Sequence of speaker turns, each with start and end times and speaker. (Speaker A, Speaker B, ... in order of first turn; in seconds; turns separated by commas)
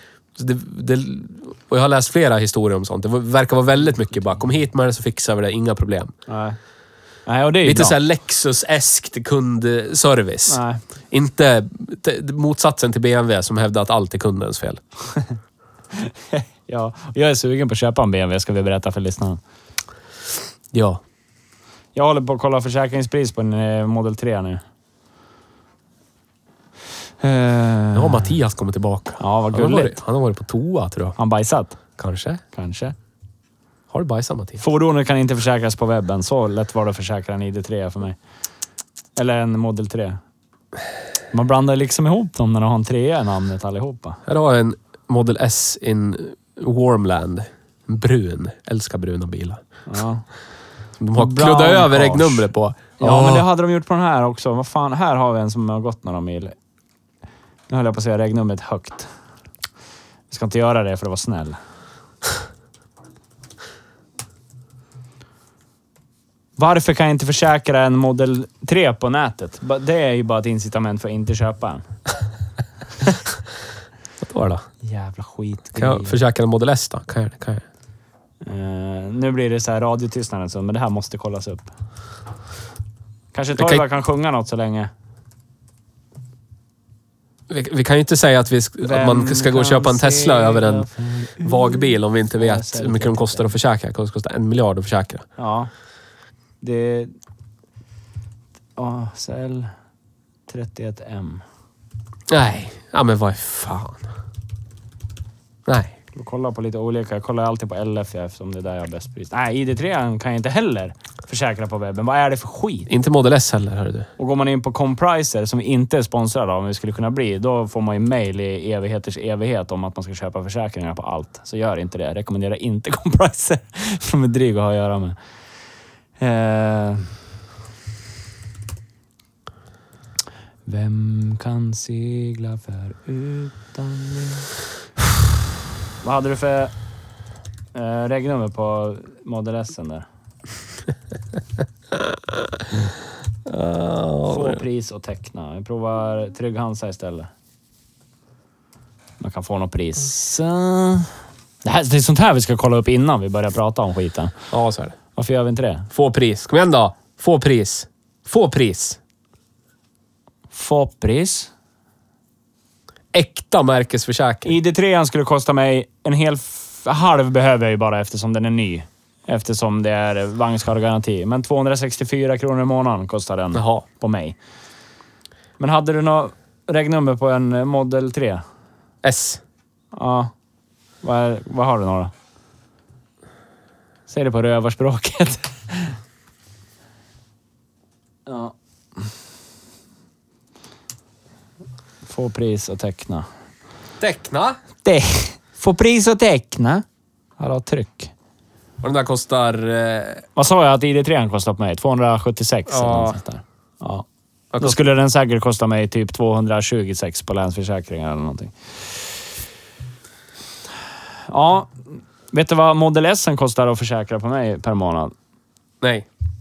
Speaker A: 0.3-6.1, Speaker B: 6.3-6.6, Speaker B: 7.2-8.0, Speaker A: 7.6-14.8, Speaker B: 10.5-10.8, Speaker B: 15.9-19.4, Speaker A: 20.7-21.0, Speaker B: 21.9-24.6, Speaker B: 27.2-28.3, Speaker A: 27.9-31.2, Speaker B: 29.2-30.0, Speaker B: 31.2-31.8, Speaker A: 32.0-32.4, Speaker B: 32.5-32.9, Speaker A: 33.9-34.6, Speaker B: 34.6-38.2, Speaker B: 39.1-40.2, Speaker B: 41.3-44.2, Speaker A: 44.2-49.6, Speaker B: 49.9-50.2, Speaker A: 51.0-53.5, Speaker B: 51.1-52.5, Speaker B: 53.0-56.5, Speaker B: 57.7-59.1, Speaker B: 60.3-61.6, Speaker B: 66.6-71.9, Speaker A: 74.2-74.6, Speaker B: 74.8-76.2, Speaker A: 75.8-77.6, Speaker B: 78.4-81.7, Speaker B: 83.3-84.9, Speaker A: 83.5-83.8, Speaker A: 87.5-95.2, Speaker B: 88.8-91.8, Speaker B: 92.4-93.5, Speaker B: 95.4-95.7, Speaker B: 96.6-97.1, Speaker B: 98.8-99.7, Speaker B: 100.5-101.4, Speaker A: 102.3-104.0, Speaker A: 105.7-105.9, Speaker B: 106.1-112.9, Speaker A: 112.9-114.1, Speaker B: 114.2-125.2, Speaker B: 126.2-127.1, Speaker B: 130.7-134.5, Speaker B: 136.0-136.7, Speaker B: 137.7-140.0, Speaker A: 143.4-144.6, Speaker B: 144.2-147.3, Speaker B: 149.2-154.3, Speaker A: 154.5-154.9, Speaker B: 155.2-155.9, Speaker A: 155.9-159.0, Speaker B: 160.5-161.5, Speaker A: 163.1-164.5, Speaker B: 164.4-174.4, Speaker A: 173.5-173.8, Speaker B: 175.6-178.4, Speaker A: 179.0-179.4, Speaker B: 179.9-180.3, Speaker B: 181.0-182.1, Speaker B: 184.1-185.9, Speaker B: 188.2-188.5, Speaker B: 192.1-193.3, Speaker A: 194.0-194.6, Speaker B: 194.8-196.8, Speaker B: 197.4-198.1, Speaker A: 198.8-200.2, Speaker B: 200.3-204.0, Speaker A: 202.7-203.2, Speaker A: 204.5-204.8, Speaker B: 204.6-209.1, Speaker B: 211.2-215.1, Speaker A: 215.8-216.1